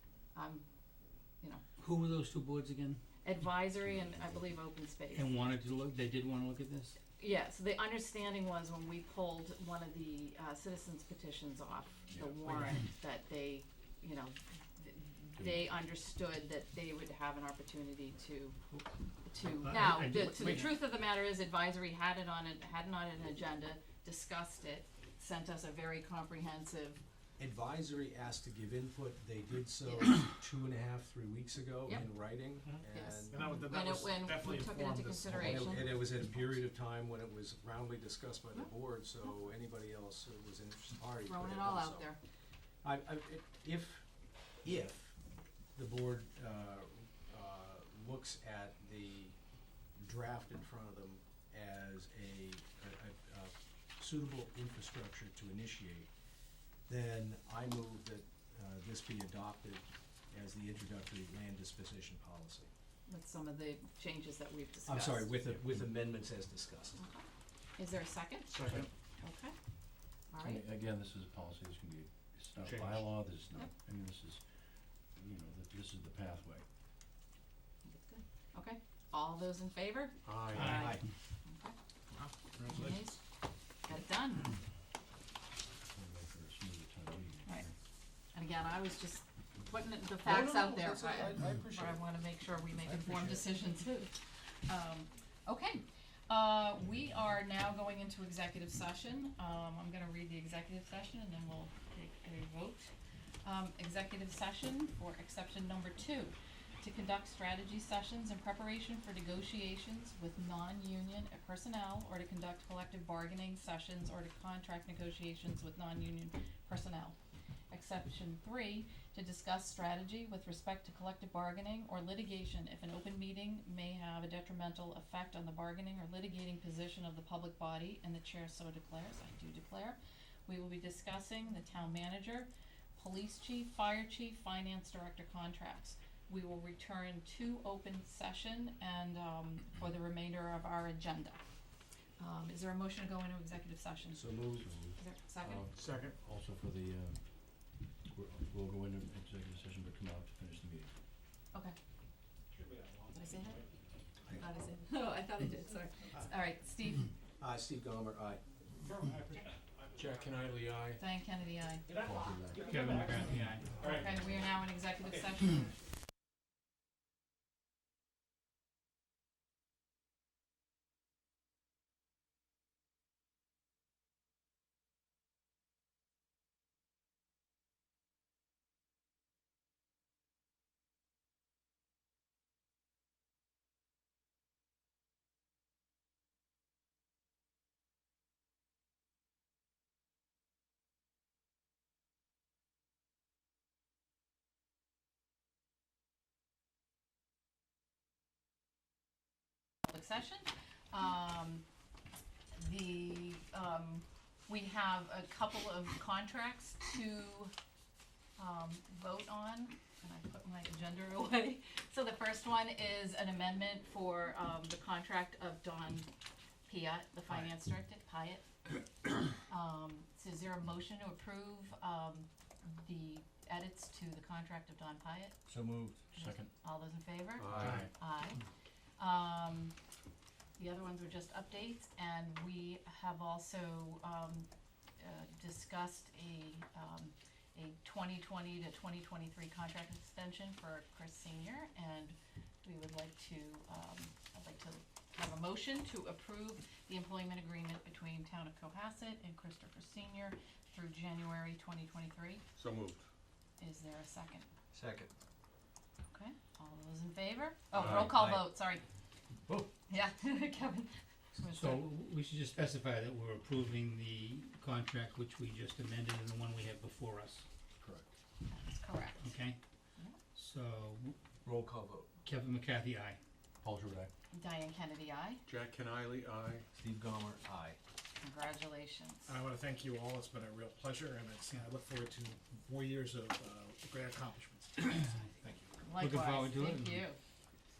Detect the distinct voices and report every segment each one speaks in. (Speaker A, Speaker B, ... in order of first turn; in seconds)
Speaker A: 0.3-0.7, 3.2-5.3, 7.2-18.6, 19.2-27.0, 29.8-30.2, 32.7-35.9, 41.3-42.2, 63.1-65.5, 67.0-67.3, 67.8-68.5, 69.2-69.5, 70.3-70.6, 77.9-81.8, 82.6-83.2, 83.8-84.6, 87.5-87.7, 88.3-102.9, 103.4-117.2, 117.7-141.4, 142.2-144.3, 144.9-145.7, 153.1-153.6, 154.3-157.1, 161.0-162.3, 163.8-165.8, 199.8-201.7, 202.5-207.5, 208.4-216.1, 216.7-218.4, 219.5-225.4, 226.1-228.4, 229.0-229.8, 230.6-252.4, 253.6-254.5, 256.1-258.8, 259.9-261.9, 268.5-269.3, 274.3-275.4, 278.2-279.4, 285.8-287.2
Speaker B: 1.8-3.0, 5.1-7.0, 19.4-20.8, 80.6-81.0, 162.7-163.8, 261.5-267.4, 269.2-269.6, 270.4-271.2, 272.2-273.2, 286.0-287.0
Speaker C: 3.9-4.4, 12.1-12.7, 15.4-15.7, 70.4-74.5, 75.1-76.7, 85.9-87.7, 144.6-150.9, 162.0-163.2, 226.2-226.5, 273.6-274.1
Speaker D: 27.4-33.4, 35.3-42.1, 42.8-44.1, 44.6-45.2, 45.8-49.4, 50.0-56.1, 56.9-62.7, 64.9-67.0, 80.5-81.0, 90.2-92.1, 92.8-93.5, 144.1-144.7, 157.4-158.4, 225.5-226.0, 254.7-255.1, 257.8-258.5, 267.8-268.1, 271.4-272.1, 276.7-277.8
Speaker E: 32.6-35.8, 152.5-153.7, 158.7-160.8, 161.9-164.2, 227.6-227.8, 279.3-285.8
Speaker F: 80.3-80.7, 252.6-253.0, 275.5-276.6